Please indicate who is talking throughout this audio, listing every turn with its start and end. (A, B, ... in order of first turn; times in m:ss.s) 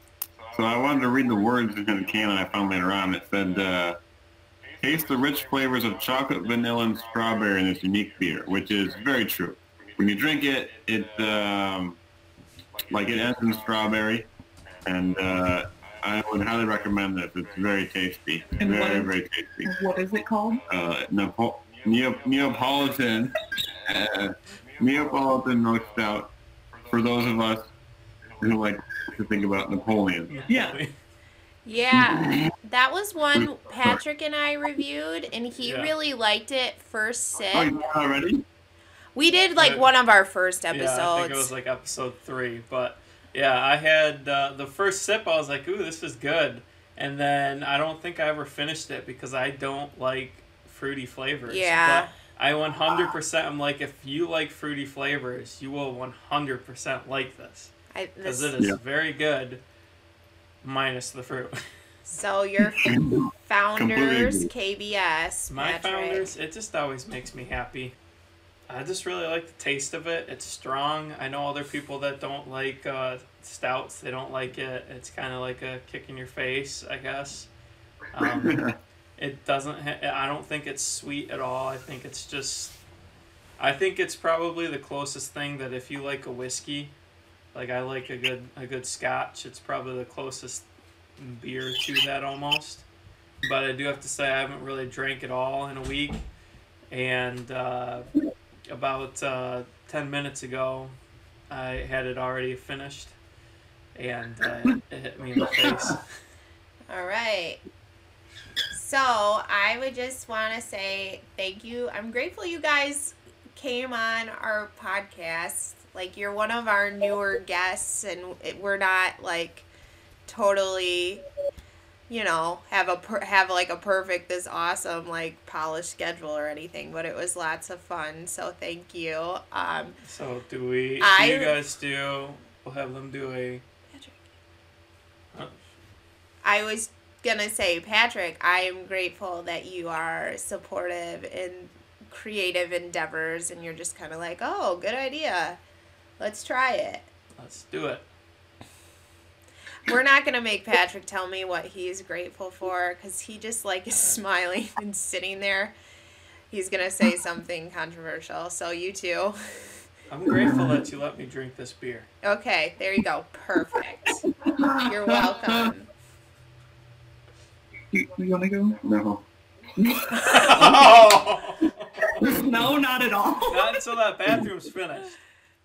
0:00.5-0:04.0 A
0:04.8-0:12.0 A
0:12.9-0:14.3 A
0:14.8-0:19.7 A
0:18.6-0:19.1 B
0:19.6-0:20.6 B
0:20.7-0:26.3 A
0:26.9-0:27.7 A
0:28.4-0:30.3 A
0:30.3-0:30.9 C
0:30.5-0:30.8 B
0:31.6-0:37.7 D
0:32.0-0:32.5 A
0:33.4-0:34.0 A
0:35.6-0:35.9 C
0:37.5-0:38.4 A
0:39.1-0:41.5 D
0:39.6-0:39.9 C
0:40.7-0:57.7 C
0:51.5-0:52.1 D
0:57.9-0:58.5 D
0:58.2-0:59.6 C
1:00.6-1:01.7 C
1:02.1-1:06.3 D
1:02.8-1:04.5 A
1:05.5-1:07.9 C
1:08.7-1:17.5 C
1:18.1-1:18.6 C
1:18.2-1:18.7 A
1:19.2-1:22.8 C
1:23.6-1:26.9 C
1:27.5-1:30.6 C
1:31.2-1:32.8 C
1:33.4-1:36.2 C
1:36.9-1:38.1 C
1:38.7-1:41.0 C
1:41.5-1:43.1 C
1:43.9-1:46.1 C
1:46.9-1:47.6 D
1:48.7-1:59.7 D
2:00.3-2:01.2 D
2:02.1-2:10.0 D
2:10.0-2:13.6 C
2:11.0-2:11.6 D
2:13.9-2:14.2 D
2:16.4-2:25.6 D
2:26.2-2:27.1 D
2:27.4-2:28.0 C
2:29.8-2:35.7 D
2:33.9-2:34.2 C
2:36.5-2:39.8 D
2:40.1-2:42.1 C
2:40.4-2:40.8 A
2:42.2-2:44.2 D
2:44.4-2:45.7 A
2:44.9-2:45.9 D
2:47.9-2:48.8 B
2:48.8-2:49.2 A
2:49.8-2:50.9 B
2:50.2-2:51.8 C
2:52.2-2:53.8 B
2:52.2-2:52.7 A
2:53.5-2:55.2 C